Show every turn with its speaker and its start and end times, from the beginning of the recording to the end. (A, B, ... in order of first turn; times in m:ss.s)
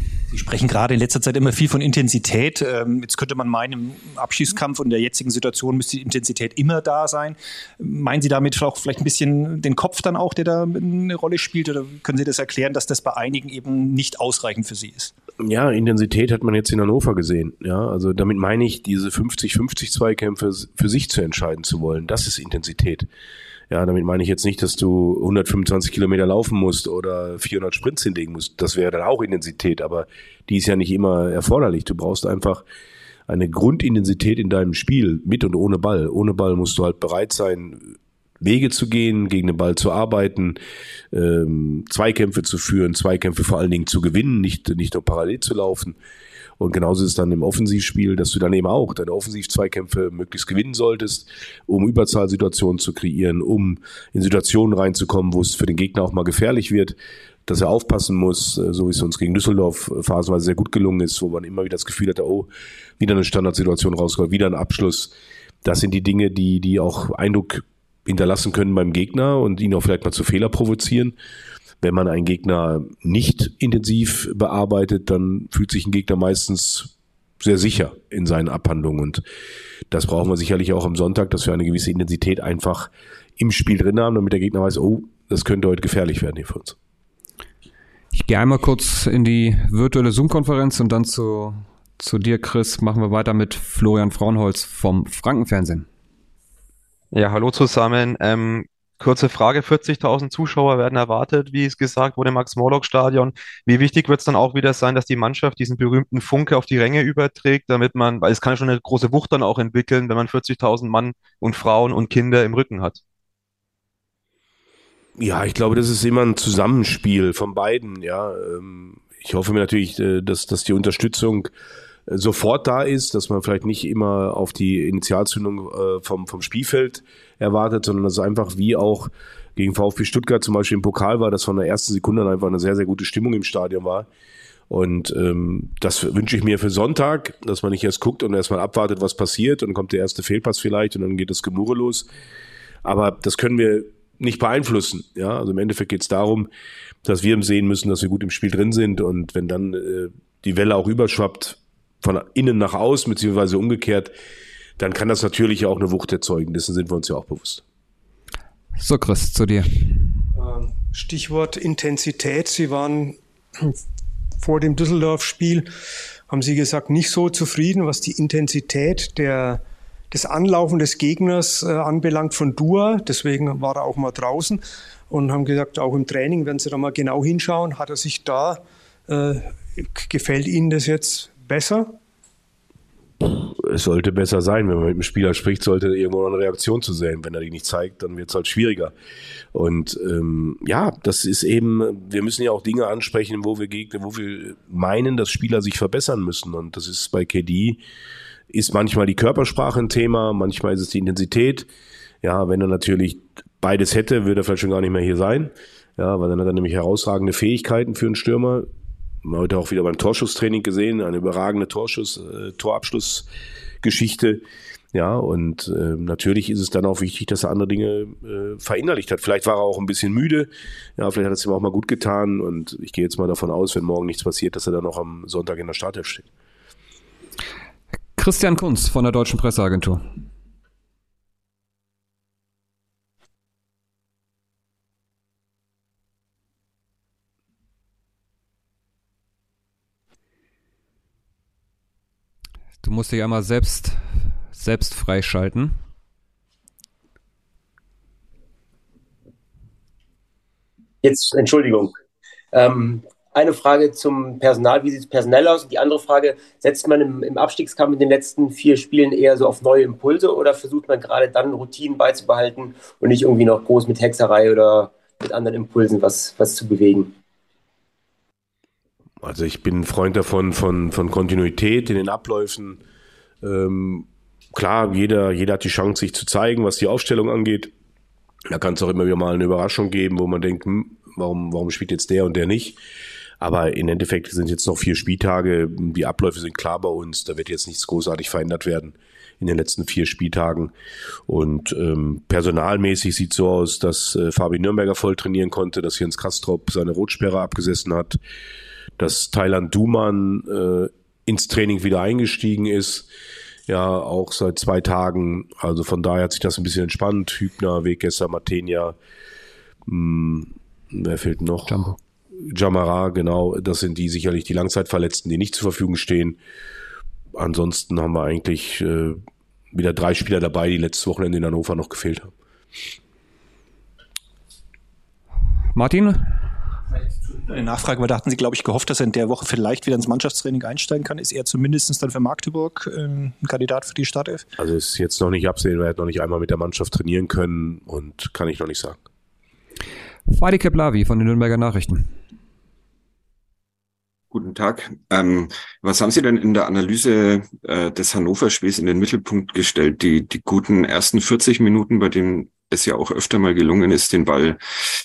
0:00.3-0:15.1 A
0:15.4-0:23.1 B
0:23.7-0:32.6 B
0:33.3-0:40.6 B
0:41.1-0:46.0 B
0:46.6-1:11.2 B
1:11.8-1:19.2 B
1:19.9-1:26.8 B
1:28.1-1:35.8 C
1:37.1-1:53.0 D
1:55.2-2:01.5 B
2:02.1-2:14.1 B
2:14.7-2:22.1 B
2:22.8-2:26.5 B
2:27.0-2:34.1 B
2:34.8-2:37.6 B
2:38.8-2:40.1 C
2:40.3-2:43.8 E
2:44.4-2:45.7 E
2:46.3-2:49.6 E
2:50.1-3:02.0 E
3:03.2-3:08.9 B
3:09.5-3:17.8 B
3:18.5-3:21.7 B
3:22.2-3:28.7 B
3:29.2-3:33.3 B
3:33.8-3:34.4 B
3:34.9-3:46.3 B
3:48.2-3:50.0 C
4:02.8-4:05.8 C
4:11.0-4:11.9 F
4:12.5-4:27.1 F
4:29.2-4:32.8 B
4:33.4-4:37.7 B
4:38.5-4:42.8 B
4:43.4-4:50.7 B
4:51.3-4:58.2 B
4:59.0-5:03.1 B
5:03.7-5:09.0 B
5:09.9-5:11.7 B
5:11.7-5:12.0 C
5:12.4-5:16.4 B
5:17.4-5:19.2 B
5:19.7-5:22.3 B
5:25.7-5:26.4 C
5:27.4-5:34.5 A
5:34.6-5:39.0 B
5:40.3-5:42.2 C
5:44.3-5:54.6 G